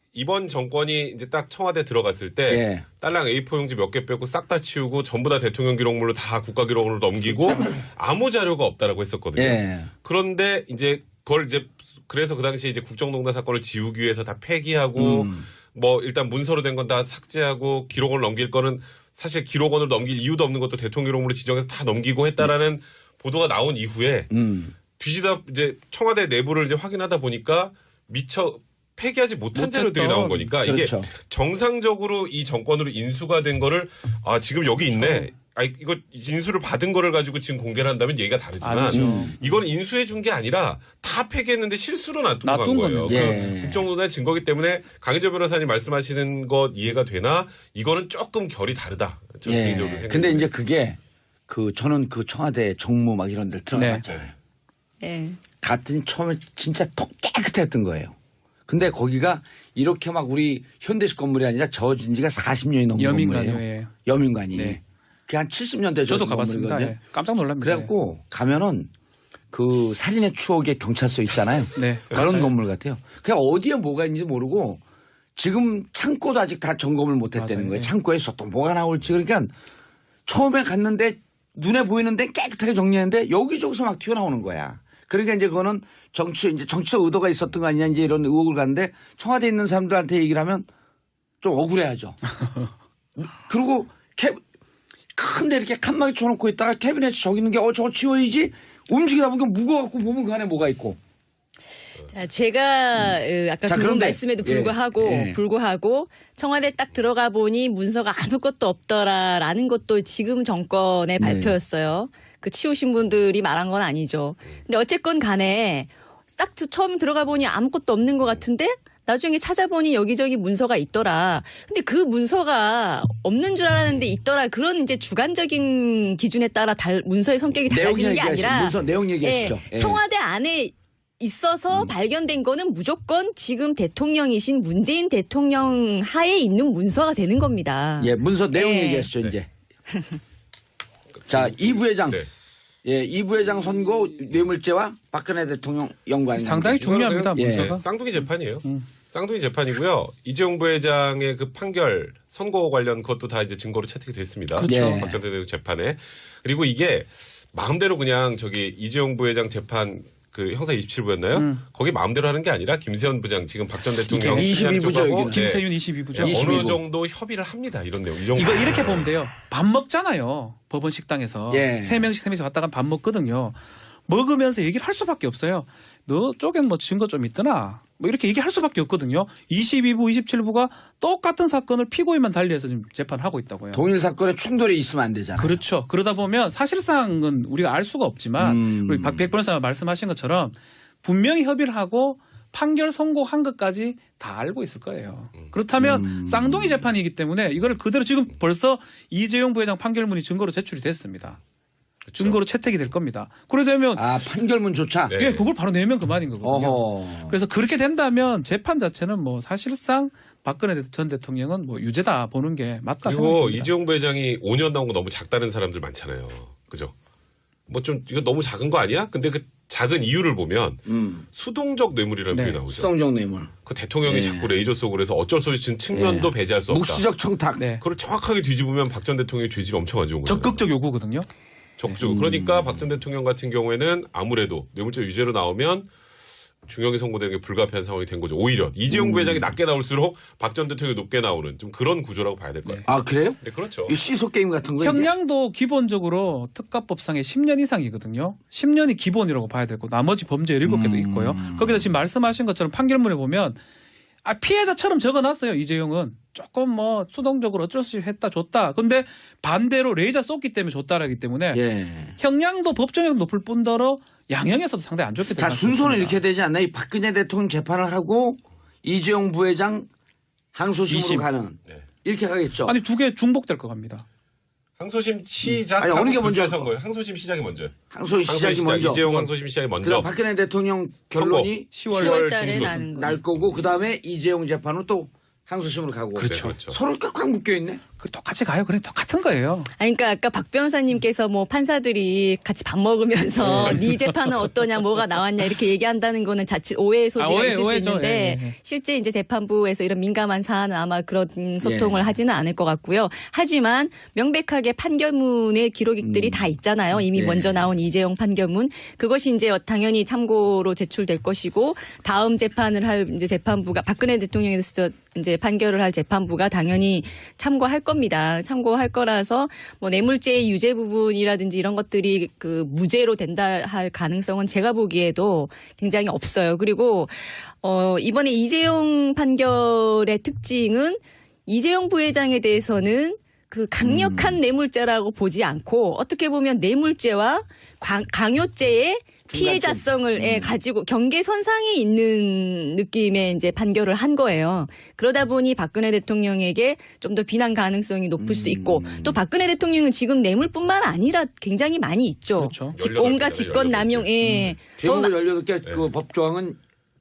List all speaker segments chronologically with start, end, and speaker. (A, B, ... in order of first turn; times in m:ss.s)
0:00.1-0:24.3 A
0:02.5-0:02.9 B
0:09.4-0:09.9 B
0:15.0-0:15.5 B
0:24.3-0:24.8 B
0:24.9-0:50.5 A
0:29.6-0:30.5 C
0:30.6-0:31.1 B
0:35.0-0:35.3 C
0:38.6-0:39.3 C
0:38.9-0:39.4 B
0:42.4-0:43.5 C
0:43.1-0:43.8 B
0:49.4-0:54.4 B
0:53.7-0:54.0 C
0:55.0-0:55.4 D
0:55.6-0:58.2 B
0:58.7-1:07.0 B
1:03.0-1:03.9 C
1:04.5-1:04.8 C
1:06.1-1:07.9 C
1:07.6-1:08.9 B
1:09.5-1:14.8 B
1:11.8-1:12.5 C
1:15.4-1:19.5 B
1:17.4-1:17.9 C
1:20.3-1:30.7 B
1:31.4-1:32.2 B
1:33.2-1:34.4 B
1:35.2-1:41.0 B
1:42.1-2:19.1 D
1:43.0-1:45.4 B
1:51.2-1:51.6 B
2:07.7-2:10.0 B
2:18.0-2:19.5 B
2:19.9-2:20.2 D
2:21.2-2:22.3 A
2:21.3-2:22.2 B
2:22.8-2:27.7 B
2:26.4-2:28.9 C
2:26.8-2:49.1 A
2:34.6-2:35.1 C
2:34.7-2:35.2 B
2:41.3-2:41.6 C
2:44.0-2:44.7 C
2:44.2-2:45.5 B
2:45.3-2:46.8 C
2:46.2-2:46.8 B
2:48.3-3:03.8 C
2:51.5-2:52.1 B
3:03.7-3:05.6 B
3:05.4-3:21.4 C
3:08.4-3:09.3 B
3:15.8-3:16.9 B
3:22.1-3:22.4 A
3:22.2-3:24.1 C
3:24.0-3:25.2 B
3:25.1-3:25.5 A
3:25.2-3:33.7 C
3:26.4-3:27.4 B
3:33.0-3:36.9 A
3:37.7-3:40.8 A
3:40.9-3:41.2 B
3:41.3-3:42.9 A
3:42.3-3:42.6 C
3:42.7-3:43.5 B
3:43.7-3:47.0 A
3:44.0-3:44.5 B
3:45.9-3:47.6 B
3:47.6-3:47.8 C
3:47.8-3:50.6 A
3:50.2-3:51.3 C
3:51.8-3:55.9 A
3:52.0-3:52.9 B
3:56.6-4:02.9 A
3:58.9-3:59.5 B
4:02.8-4:05.1 B
4:03.4-4:04.0 A
4:04.8-4:13.6 C
4:10.6-4:11.9 B
4:14.2-4:21.6 C
4:21.5-4:22.2 B
4:22.2-4:26.2 C
4:25.4-4:29.9 B
4:30.5-4:32.8 B
4:30.9-4:31.3 C
4:32.6-4:34.0 C
4:34.8-4:37.7 A
4:35.4-4:36.7 B
4:37.9-4:39.3 B
4:38.3-4:40.1 A
4:39.8-4:41.8 B
4:41.1-4:42.8 A
4:41.7-4:43.2 C
4:41.8-4:43.2 D
4:42.9-4:47.8 B
4:46.2-4:46.8 A
4:48.0-4:49.7 C
4:49.8-5:55.1 D
4:53.4-4:53.8 B
4:57.2-4:58.6 C
5:01.6-5:02.1 B
5:06.0-5:06.5 B
5:07.1-5:07.7 B
5:33.8-5:34.4 B
5:39.3-5:40.6 B
5:48.2-5:49.2 B
5:52.4-5:52.8 C
5:52.8-5:54.3 A
5:54.2-5:54.6 C
5:54.8-5:56.6 B